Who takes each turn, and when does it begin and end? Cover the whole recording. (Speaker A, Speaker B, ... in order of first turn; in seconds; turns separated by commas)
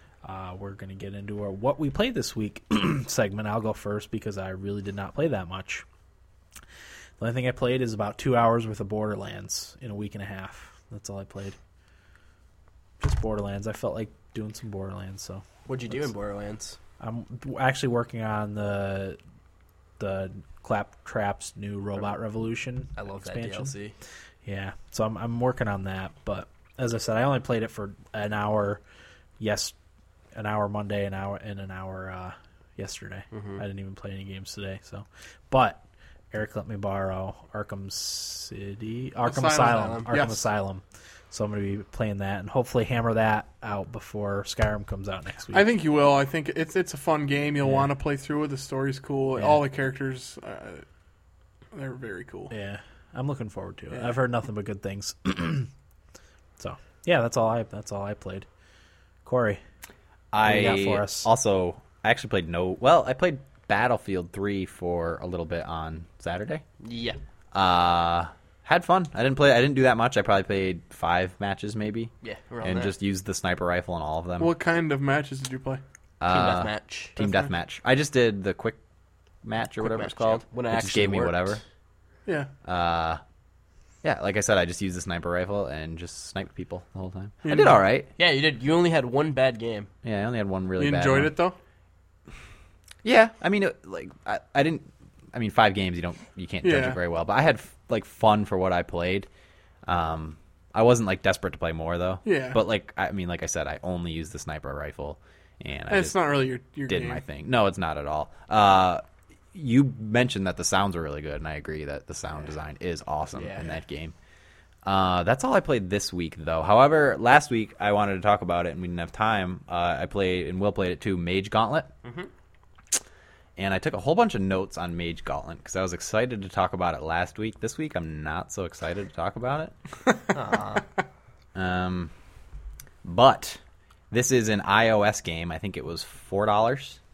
Speaker A: 0.2-5.8, Speaker A: 7.2-11.6, Speaker A: 13.0-15.9, Speaker B: 15.7-16.8, Speaker A: 17.0-19.2, Speaker A: 20.0-23.7, Speaker B: 23.0-23.9, Speaker A: 24.4-28.8, Speaker A: 29.4-29.7, Speaker A: 30.3-45.7, Speaker B: 33.3-33.6, Speaker C: 39.2-40.4, Speaker B: 39.7-40.1, Speaker C: 45.5-50.8, Speaker A: 47.6-47.9, Speaker A: 49.4-49.6, Speaker C: 51.7-52.5, Speaker A: 52.5-55.7, Speaker A: 56.6-58.5, Speaker A: 59.2-59.6, Speaker D: 60.3-66.6, Speaker A: 60.4-61.3, Speaker B: 66.8-67.2, Speaker D: 67.5-74.5, Speaker B: 72.2-72.9, Speaker C: 74.4-75.8, Speaker D: 76.2-78.8, Speaker B: 76.3-77.1, Speaker C: 77.2-77.5, Speaker D: 79.4-81.6, Speaker B: 79.8-81.6, Speaker D: 82.6-83.2, Speaker D: 84.0-88.1, Speaker C: 87.4-87.8, Speaker B: 88.2-89.9, Speaker D: 90.0-91.3, Speaker C: 90.8-91.6, Speaker D: 93.0-99.3, Speaker C: 96.6-97.0, Speaker D: 99.8-109.0, Speaker C: 102.2-102.6, Speaker C: 105.9-107.2, Speaker D: 109.5-114.1, Speaker B: 113.3-113.7, Speaker D: 114.8-121.9, Speaker B: 122.0-122.3, Speaker D: 123.5-129.7, Speaker B: 130.3-130.8, Speaker D: 131.5-132.1, Speaker D: 133.0-133.6, Speaker D: 134.1-137.0